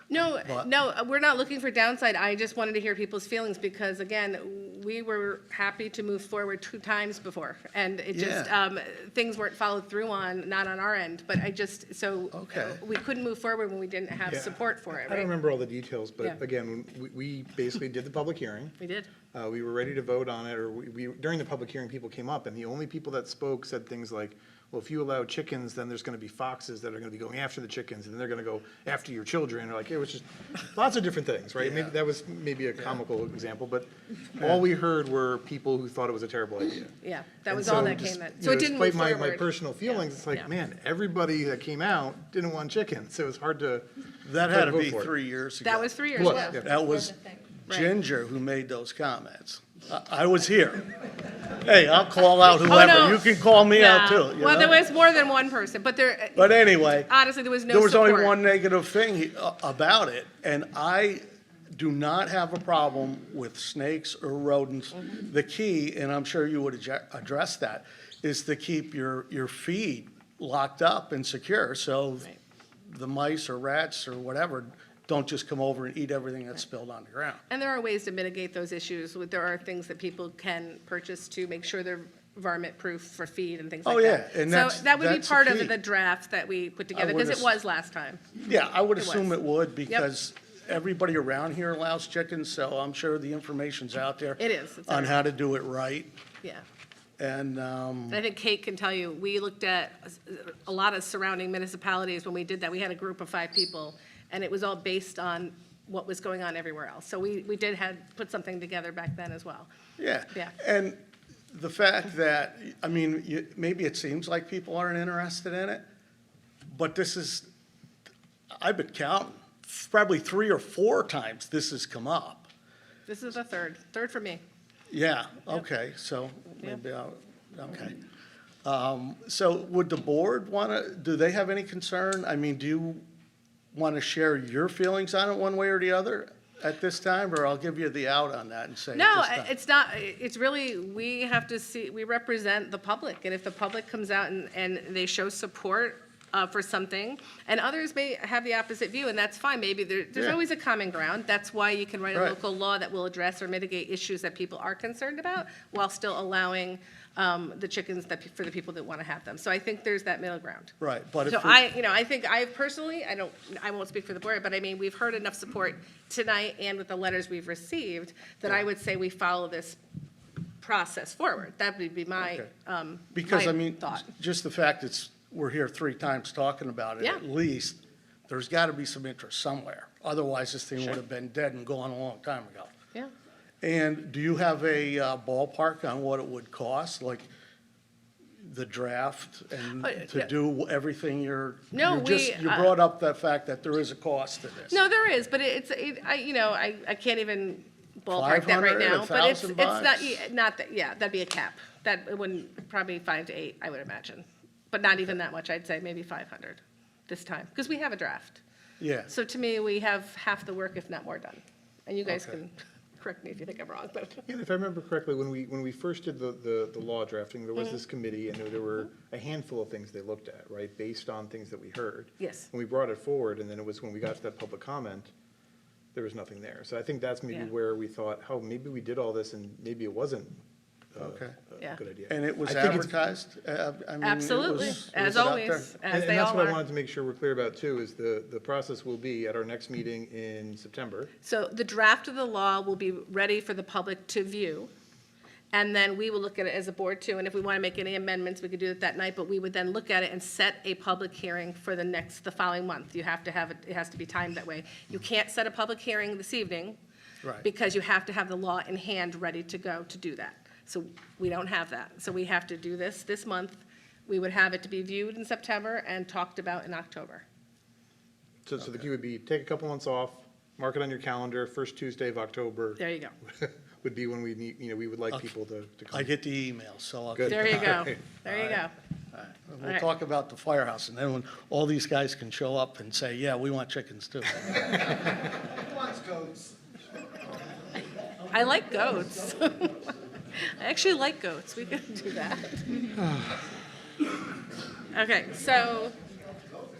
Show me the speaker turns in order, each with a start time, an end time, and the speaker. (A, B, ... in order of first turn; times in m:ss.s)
0:00.1-0:15.3 A
0:00.4-0:00.7 B
0:08.1-0:08.5 B
0:12.3-0:12.8 B
0:14.3-0:18.8 C
0:18.8-0:19.1 A
0:19.3-0:36.9 C
0:31.6-0:31.9 B
0:37.0-0:40.5 A
0:37.5-0:43.8 C
0:44.2-0:50.9 B
0:44.5-0:45.1 C
0:45.6-0:46.8 A
0:46.2-0:46.8 C
0:51.6-0:54.8 B
0:52.6-0:58.4 A
0:56.3-0:57.1 B
0:57.7-1:12.3 B
1:12.8-1:17.4 B
1:17.5-1:28.2 A
1:23.8-1:25.8 B
1:26.9-1:27.5 B
1:28.4-1:36.1 B
1:29.0-1:29.3 A
1:34.4-1:35.2 A
1:37.2-1:38.2 B
1:38.1-1:49.7 A
1:50.0-1:55.8 B
1:56.7-1:57.5 B
1:58.5-2:02.5 B
2:03.1-2:04.4 A
2:04.9-2:08.0 B
2:08.6-2:13.0 B
2:13.7-2:19.5 B
2:18.9-2:49.8 A
2:40.8-2:41.6 B
2:50.6-2:54.1 A
2:52.2-2:52.5 B
2:53.1-3:02.7 B
3:03.6-3:07.3 B
3:08.4-3:14.8 B
3:09.7-3:10.3 A
3:11.7-3:12.8 A
3:14.7-3:28.4 A
3:18.1-3:20.2 B
3:28.8-3:29.1 B
3:29.1-3:34.2 A
3:32.0-3:32.4 B
3:34.3-3:45.1 C
3:37.6-3:37.8 A
3:42.2-3:42.5 A
3:45.9-3:50.4 C
3:50.9-3:52.9 C
3:51.0-3:51.4 B
3:52.1-3:55.7 B
3:54.0-3:56.6 A
3:55.9-4:01.1 C
4:01.2-4:04.7 A
4:05.5-4:16.8 A
4:17.4-4:27.2 A
4:28.4-4:36.1 C
4:32.8-4:33.1 A
4:35.9-4:37.9 B
4:37.1-4:38.4 C
4:37.2-4:38.7 A
4:39.1-4:45.1 B
4:48.3-4:52.9 A
4:52.9-4:53.4 C
4:54.9-4:55.9 A